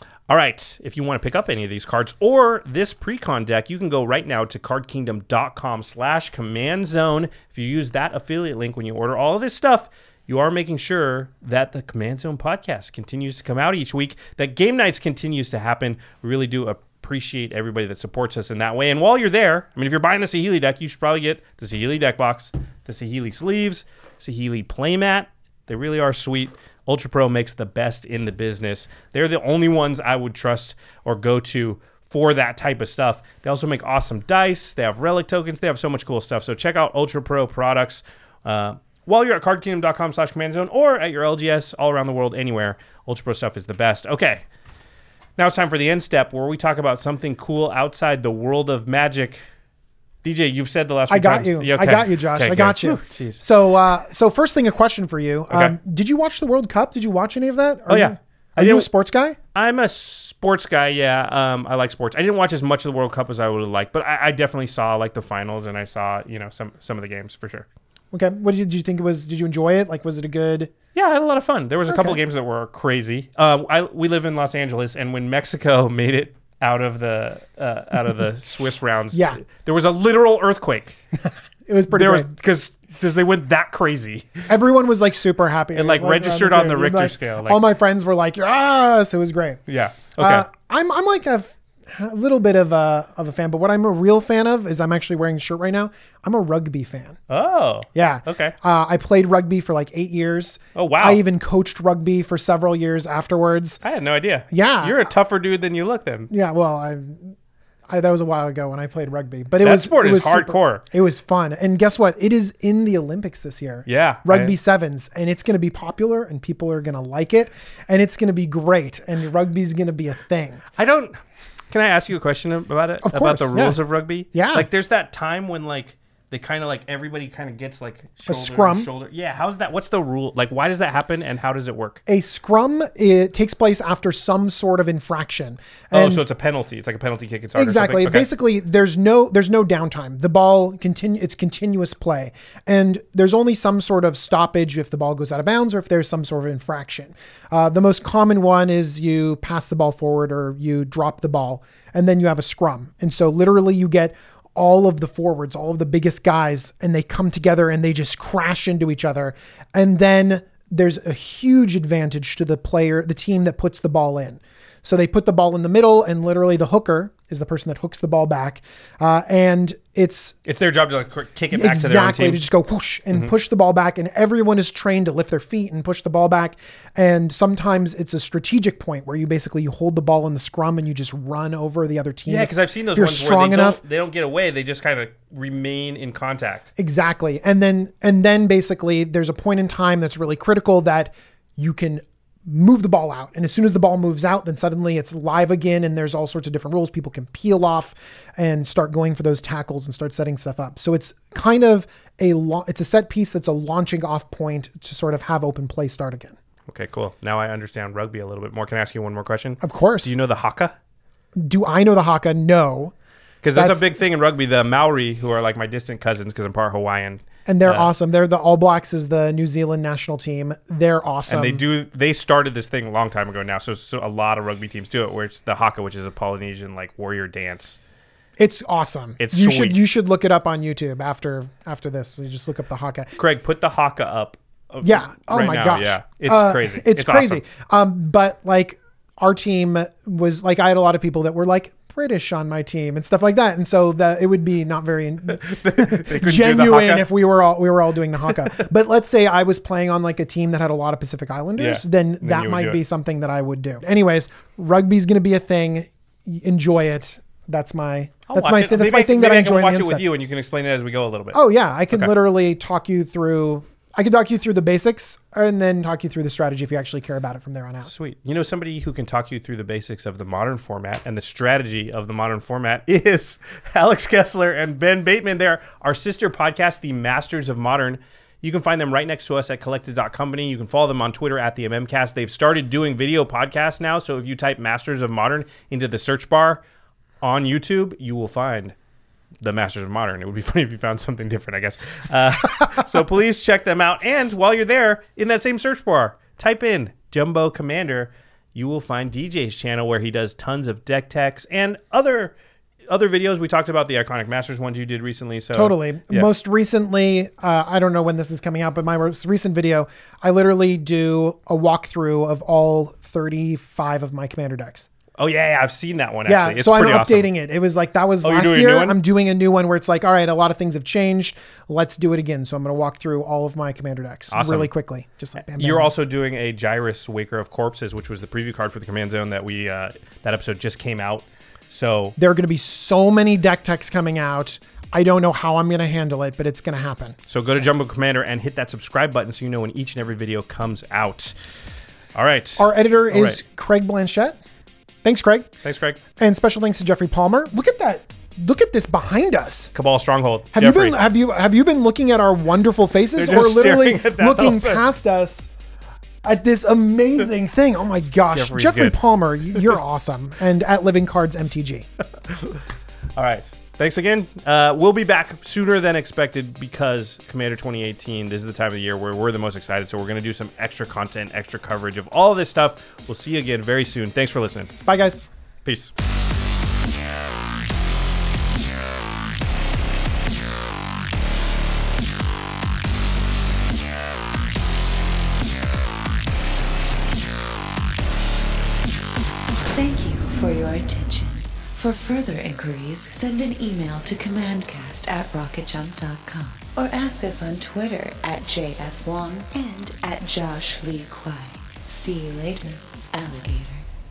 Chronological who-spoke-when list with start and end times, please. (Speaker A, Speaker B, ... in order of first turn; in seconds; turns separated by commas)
Speaker A: 0.3-44.5, Speaker A: 45.4-49.4, Speaker A: 50.2-53.4, Speaker B: 51.1-59.4, Speaker A: 55.5-55.8, Speaker A: 57.9-58.9, Speaker A: 59.5-67.7, Speaker B: 68.1-70.7, Speaker A: 71.0-81.0, Speaker B: 71.9-72.2, Speaker B: 79.1-79.4, Speaker B: 81.7-82.3, Speaker A: 81.9-84.5, Speaker B: 84.5-89.6, Speaker A: 85.7-87.6, Speaker A: 89.7-90.5, Speaker B: 90.2-97.2, Speaker A: 97.3-98.5, Speaker B: 98.0-103.8, Speaker A: 100.8-101.2, Speaker A: 103.8-106.3, Speaker B: 104.5-105.1, Speaker B: 106.3-107.4, Speaker B: 107.9-120.6, Speaker A: 109.6-110.8, Speaker A: 113.9-114.5, Speaker A: 120.8-121.2, Speaker A: 121.7-132.0, Speaker B: 123.0-123.8, Speaker B: 124.3-124.7, Speaker B: 128.3-128.9, Speaker B: 132.1-136.2, Speaker A: 135.9-138.3, Speaker B: 137.6-170.4, Speaker A: 170.5-172.4, Speaker B: 171.5-183.8, Speaker A: 182.3-186.7, Speaker B: 186.8-206.4, Speaker A: 206.7-210.8, Speaker B: 209.6-210.1, Speaker B: 211.4-212.9, Speaker A: 213.4-217.9, Speaker B: 213.6-213.9, Speaker B: 217.5-221.6, Speaker A: 221.3-227.8, Speaker B: 228.4-233.1, Speaker A: 229.2-229.8, Speaker A: 233.2-237.4, Speaker B: 234.8-260.0, Speaker A: 245.3-247.1, Speaker A: 248.4-248.7, Speaker A: 251.6-252.8, Speaker A: 258.3-261.4, Speaker B: 261.3-267.9, Speaker A: 267.9-286.6, Speaker A: 287.2-288.8, Speaker A: 289.4-302.3, Speaker A: 302.9-306.3, Speaker B: 305.5-314.9, Speaker A: 315.2-317.3, Speaker B: 316.3-325.9, Speaker A: 318.2-319.0, Speaker A: 324.3-324.7, Speaker A: 325.4-332.1, Speaker B: 332.2-337.2, Speaker A: 337.3-341.3, Speaker A: 342.1-343.4, Speaker B: 342.6-344.4, Speaker B: 345.0-345.5, Speaker A: 345.6-346.0, Speaker B: 346.2-349.7, Speaker A: 349.7-351.0, Speaker B: 350.5-355.5, Speaker A: 353.2-354.8, Speaker B: 356.2-361.9, Speaker A: 358.3-359.0, Speaker A: 362.3-362.6, Speaker A: 363.2-374.7, Speaker B: 374.9-375.2, Speaker A: 375.6-375.9, Speaker C: 389.7-403.9